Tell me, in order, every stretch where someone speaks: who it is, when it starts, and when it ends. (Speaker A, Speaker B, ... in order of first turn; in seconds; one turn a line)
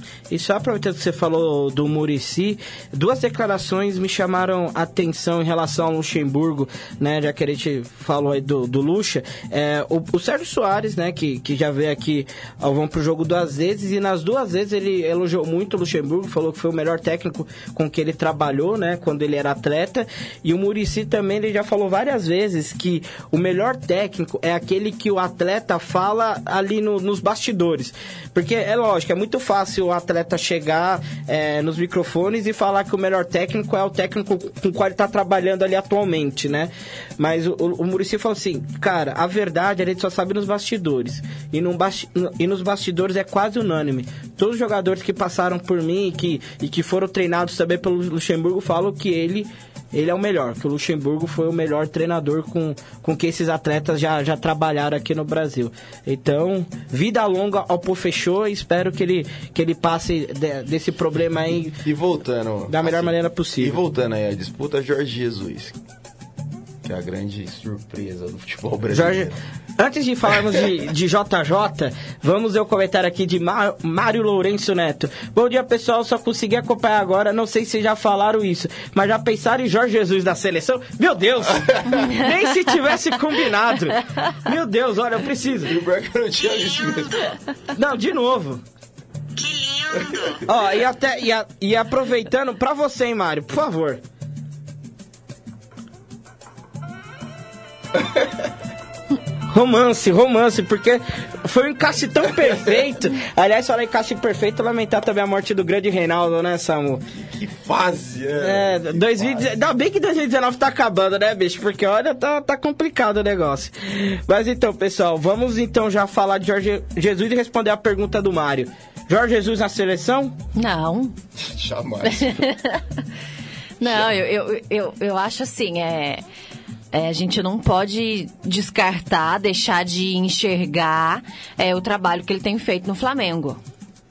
Speaker A: 0.3-61.8
Speaker B: 61.6-65.7
Speaker A: 62.7-63.8
Speaker B: 66.8-69.4
Speaker A: 68.9-85.8
Speaker B: 81.5-82.1
Speaker B: 85.6-87.4
Speaker A: 87.7-88.6
Speaker B: 89.9-90.4
Speaker A: 90.4-94.0
Speaker A: 99.5-107.0
Speaker B: 107.1-109.5
Speaker A: 108.4-120.3
Speaker C: 120.5-121.1
Speaker B: 121.3-122.4
Speaker C: 122.0-123.0
Speaker C: 123.8-126.2
Speaker B: 123.8-124.2
Speaker C: 126.9-133.6